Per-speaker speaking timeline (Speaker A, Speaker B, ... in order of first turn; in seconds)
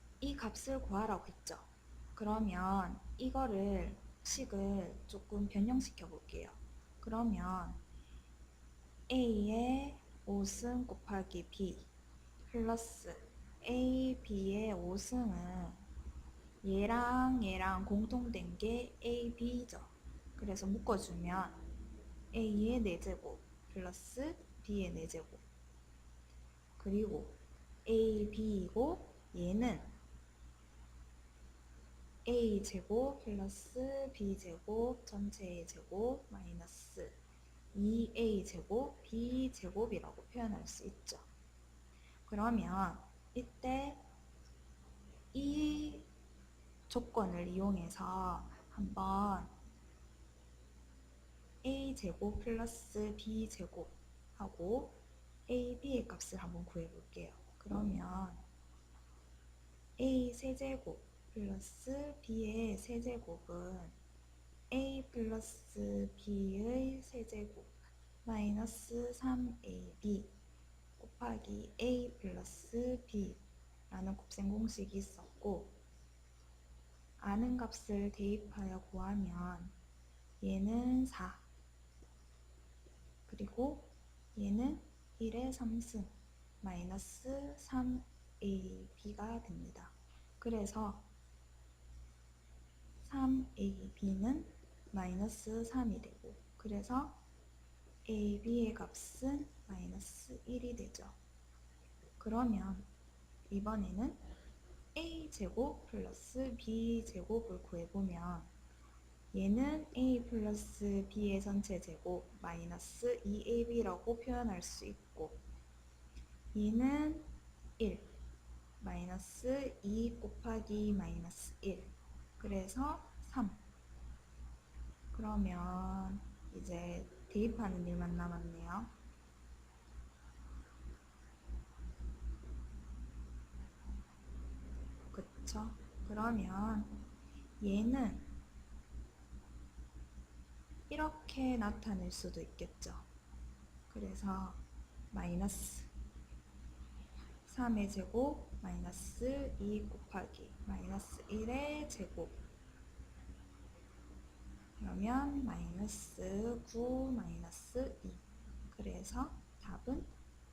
Speaker A: 0.2-7.8, 9.1-11.9, 12.5-15.8, 16.6-21.6, 22.3-25.4, 26.8-29.9, 32.2-37.2, 37.7-41.3, 42.3-44.0, 45.3-46.1, 46.9-49.5, 51.6-58.4, 60.0-64.0, 64.7-70.3, 71.0-75.8, 77.2-79.8, 80.4-81.5, 83.3-86.1, 86.6-91.1, 93.0-97.2, 98.0-101.2, 102.2-102.9, 103.5-104.3, 105.0-108.5, 109.3-115.4, 116.5-118.1, 118.8-123.6, 125.1-128.9, 135.1-137.1, 137.6-138.3, 140.9-143.1, 143.9-145.9, 147.5-152.4, 154.8-160.1